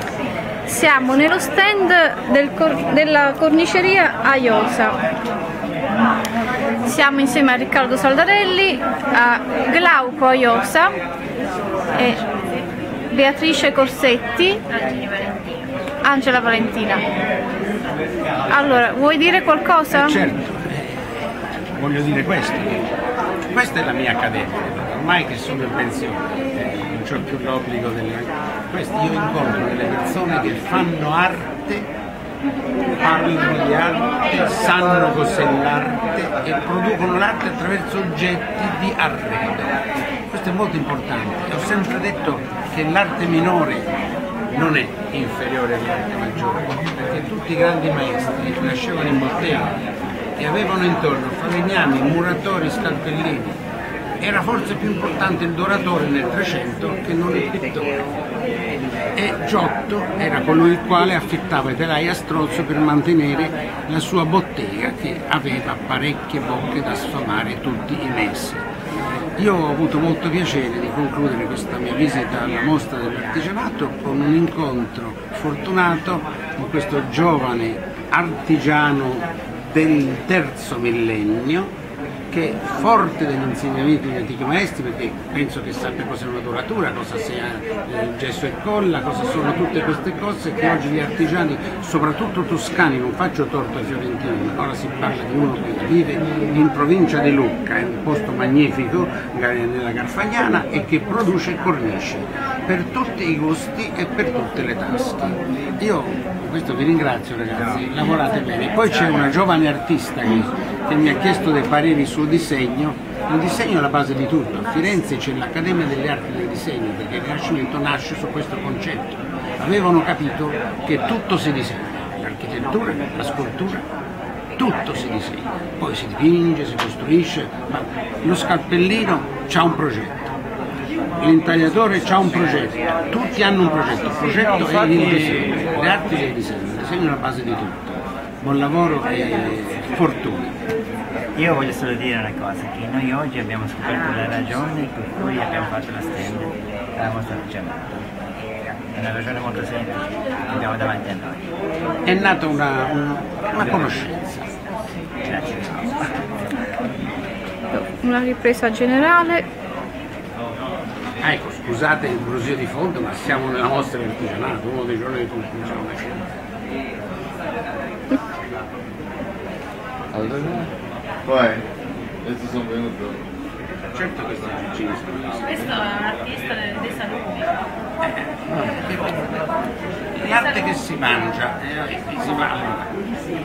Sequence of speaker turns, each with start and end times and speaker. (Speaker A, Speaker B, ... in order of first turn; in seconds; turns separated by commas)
Speaker A: 0.7-5.0, Speaker A: 6.8-10.9, Speaker A: 11.9-12.2, Speaker A: 13.1-14.6, Speaker B: 14.7-15.6, Speaker A: 16.0-17.0, Speaker A: 18.5-20.2, Speaker C: 19.9-22.9, Speaker C: 23.5-31.9, Speaker C: 33.0-39.8, Speaker C: 40.3-43.9, Speaker C: 44.5-49.8, Speaker C: 50.4-53.6, Speaker C: 54.2-58.1, Speaker C: 59.1-68.6, Speaker C: 69.4-81.7, Speaker C: 82.3-123.9, Speaker C: 124.6-130.3, Speaker C: 131.2-140.6, Speaker D: 141.3-148.0, Speaker D: 148.9-151.4, Speaker C: 152.1-154.5, Speaker D: 155.2-156.1, Speaker A: 157.7-159.4, Speaker C: 161.2-166.3, Speaker E: 170.1-170.7, Speaker E: 171.3-171.7, Speaker E: 172.2-173.2, Speaker C: 173.9-176.0, Speaker B: 175.9-177.6, Speaker C: 178.0-179.5, Speaker C: 180.1-182.9